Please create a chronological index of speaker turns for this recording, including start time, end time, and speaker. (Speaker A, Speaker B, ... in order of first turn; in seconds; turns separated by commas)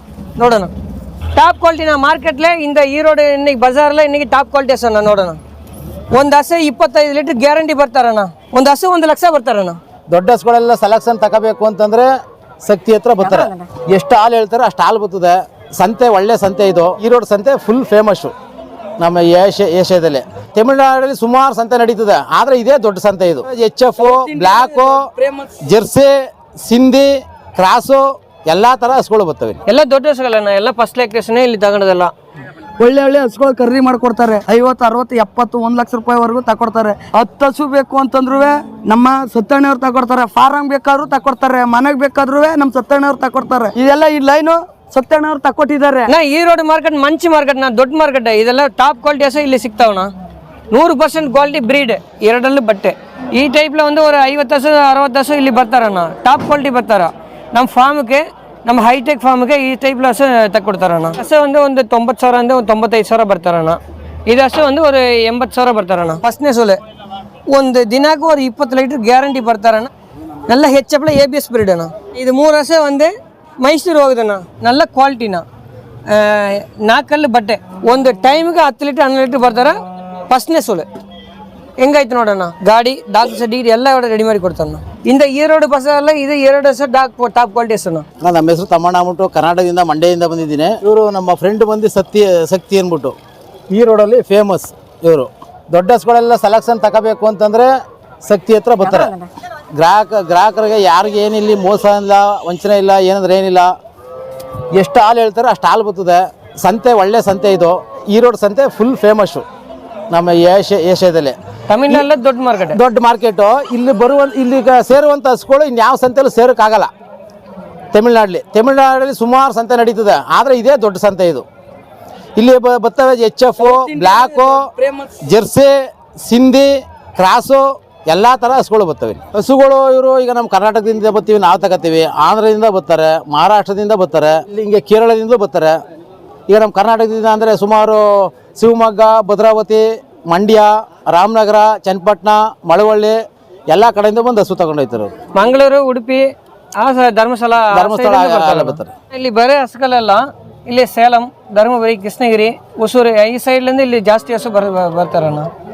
Speaker A: 0.4-0.7, Speaker A: 1.4-5.4, Speaker A: 6.1-9.8, Speaker B: 10.1-18.3, Speaker B: 19.0-25.1, Speaker C: 24.1-25.4, Speaker B: 25.6-29.6, Speaker A: 29.7-32.1, Speaker C: 32.8-46.1, Speaker A: 46.1-50.1, Speaker A: 50.7-66.8, Speaker A: 67.5-69.9, Speaker A: 70.5-75.4, Speaker A: 76.1-80.9, Speaker A: 81.8-88.0, Speaker B: 88.2-93.2, Speaker B: 93.7-97.7, Speaker B: 98.2-99.2, Speaker B: 99.8-103.7, Speaker B: 104.7-109.5, Speaker B: 110.1-111.4, Speaker A: 111.7-112.8, Speaker B: 112.7-116.9, Speaker B: 117.9-121.5, Speaker B: 122.4-124.7, Speaker C: 123.8-125.1, Speaker B: 125.2-135.8, Speaker B: 136.5-143.2, Speaker B: 143.7-145.1, Speaker A: 145.3-155.5, Speaker B: 147.7-148.9